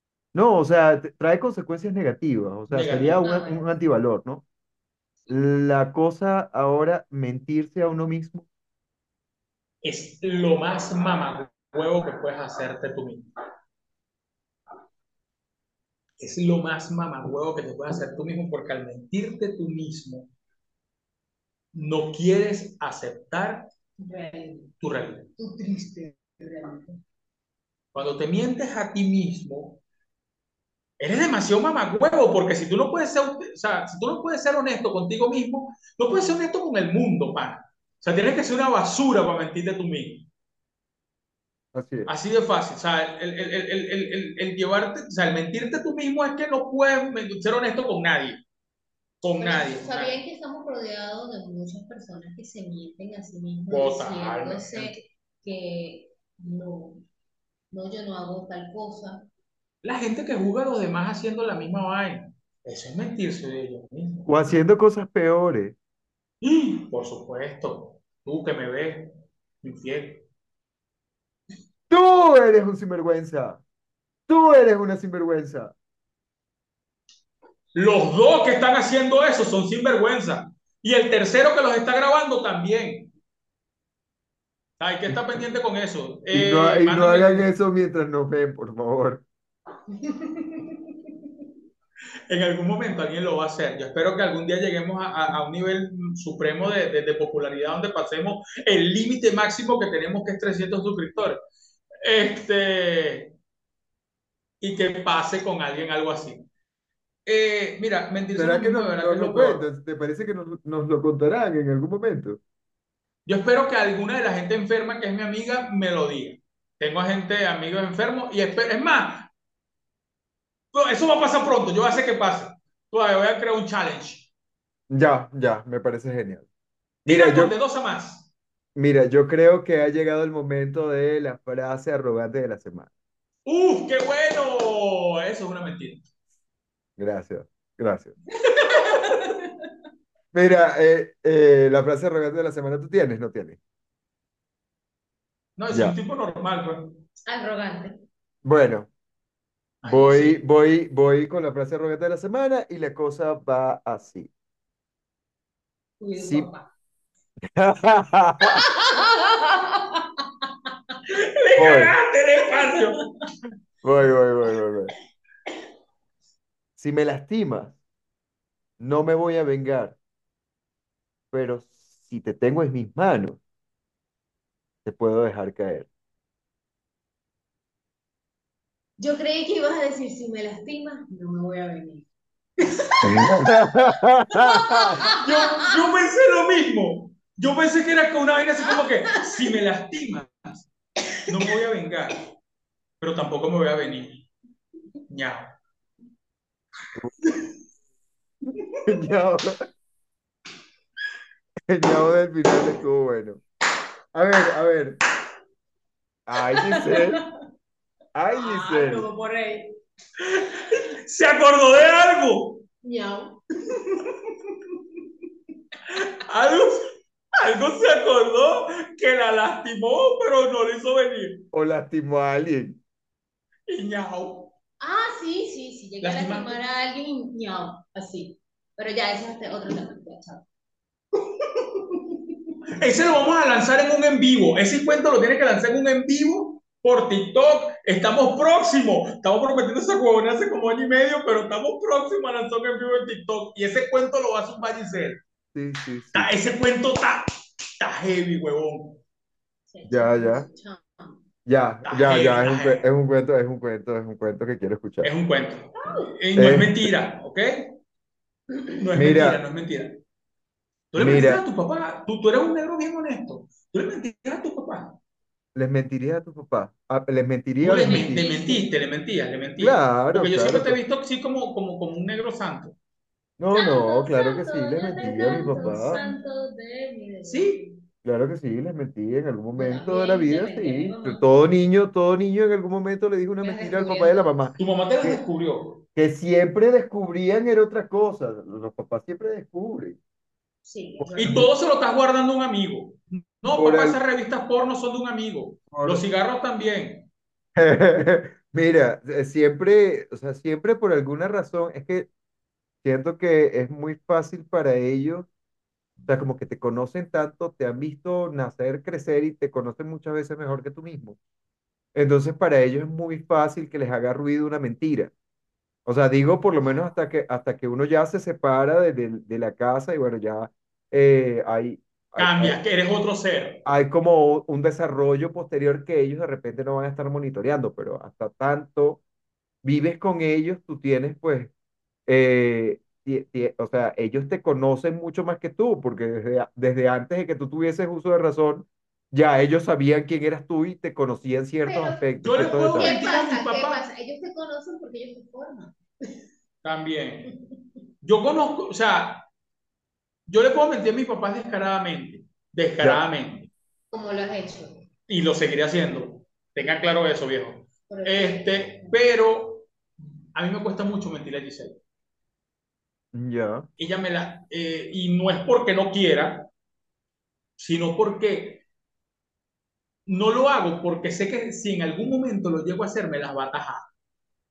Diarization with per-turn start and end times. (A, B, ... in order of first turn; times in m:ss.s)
0:00.3-0:04.4 A
0:02.7-0:03.2 B
0:03.2-0:03.7 C
0:05.3-0:08.4 A
0:09.8-0:13.3 B
0:16.2-0:20.3 B
0:21.7-0:23.7 B
0:24.0-0:24.7 C
0:24.8-0:25.3 B
0:25.4-0:27.0 C
0:27.9-0:29.8 B
0:31.0-0:40.2 B
0:41.7-0:42.1 A
0:42.1-0:48.4 B
0:49.2-0:50.2 B
0:49.4-0:57.0 C
0:53.7-0:55.0 B
0:57.7-0:59.3 C
0:59.8-1:04.3 B
1:04.3-1:05.8 A
1:06.4-1:09.1 B
1:09.6-1:10.2 B
1:11.9-1:13.6 A
1:14.3-1:15.7 A
1:17.7-1:23.1 B
1:24.8-1:27.5 B
1:26.3-1:29.2 A
1:30.1-1:30.6 C
1:32.3-1:41.4 B
1:42.0-1:43.3 B
1:44.6-1:46.4 B
1:47.2-1:49.6 B
1:48.4-1:52.4 A
1:53.2-1:59.3 B
2:00.7-2:04.3 B
2:04.9-2:06.4 A
2:07.0-2:07.5 A
2:07.0-2:08.3 B
2:08.7-2:12.9 A
2:13.4-2:16.0 B
2:17.0-2:18.1 A
2:18.5-2:19.4 C
2:18.6-2:19.2 B
2:20.3-2:23.6 A
2:25.6-2:27.0 B
2:25.7-2:26.0 A
2:27.3-2:28.0 C
2:28.4-2:28.9 A
2:29.8-2:30.4 B
2:29.9-2:34.3 A
2:36.0-2:36.7 C
2:36.2-2:36.5 A
2:37.5-2:38.6 A
2:38.4-2:40.9 C
2:41.1-2:43.0 B
2:41.6-2:41.9 A
2:42.5-2:42.8 C
2:43.8-2:44.9 A
2:46.8-2:47.8 A
2:48.8-2:50.0 A
2:51.3-2:53.4 A
2:54.8-2:55.9 A
2:59.0-3:02.1 C
3:02.6-3:05.7 C
3:03.0-3:05.0 A
3:05.0-3:10.6 B
3:11.2-3:12.2 B
3:13.0-3:14.3 B
3:15.1-3:15.5 B
3:18.8-3:19.6 A
3:21.7-3:23.4 A
3:24.1-3:25.0 A
3:26.3-3:27.2 A
3:26.5-3:27.2 C
3:28.1-3:29.1 A
3:28.3-3:29.7 C
3:30.2-3:32.6 B
3:32.8-3:34.0 C
3:35.9-3:36.8 B
3:37.4-3:41.4 B
3:41.5-3:42.8 A
3:43.7-3:44.5 B
3:44.8-3:50.4 C
3:46.0-3:46.6 B
3:51.9-3:52.2 C
3:52.8-4:05.2 B
4:05.5-4:06.3 A
4:06.1-4:07.2 B
4:07.8-4:09.0 B
4:09.7-4:11.1 C
4:09.9-4:10.5 A
4:11.4-4:15.1 A
4:11.8-4:12.9 B
4:15.0-4:17.7 B
4:16.4-4:16.9 A
4:18.7-4:20.0 B
4:19.0-4:19.4 A
4:20.9-4:24.9 B
4:21.0-4:21.4 A
4:25.5-4:28.2 A
4:27.6-4:32.7 B
4:27.8-4:28.7 C
4:29.6-4:30.8 A
4:33.4-4:36.0 A
4:33.5-4:37.8 C
4:37.3-4:37.6 B
4:38.0-4:45.2 A
4:39.5-4:41.2 C
4:43.4-4:44.5 C
4:44.6-4:45.8 B
4:45.9-4:50.0 A
4:50.6-4:51.5 C
4:51.0-4:51.4 A
4:51.2-4:57.1 B
4:53.5-4:54.0 A
4:55.7-4:56.0 A
4:57.6-5:02.1 A
5:02.8-5:05.3 A
5:06.1-5:11.2 A
5:11.9-5:15.1 A
5:15.8-5:22.6 A
5:22.2-5:23.6 B
5:23.6-5:29.0 A
5:29.6-5:31.5 A
5:32.1-5:43.0 A
5:41.6-5:45.8 C
5:42.2-5:43.8 B
5:46.6-5:47.3 B
5:48.0-5:49.2 B
5:50.3-5:53.5 B
5:53.9-5:54.8 C
5:55.1-5:59.7 B
5:57.9-5:58.9 C
6:00.3-6:01.8 B
6:03.1-6:03.7 A
6:03.8-6:06.5 B
6:07.6-6:08.6 B
6:10.0-6:13.9 B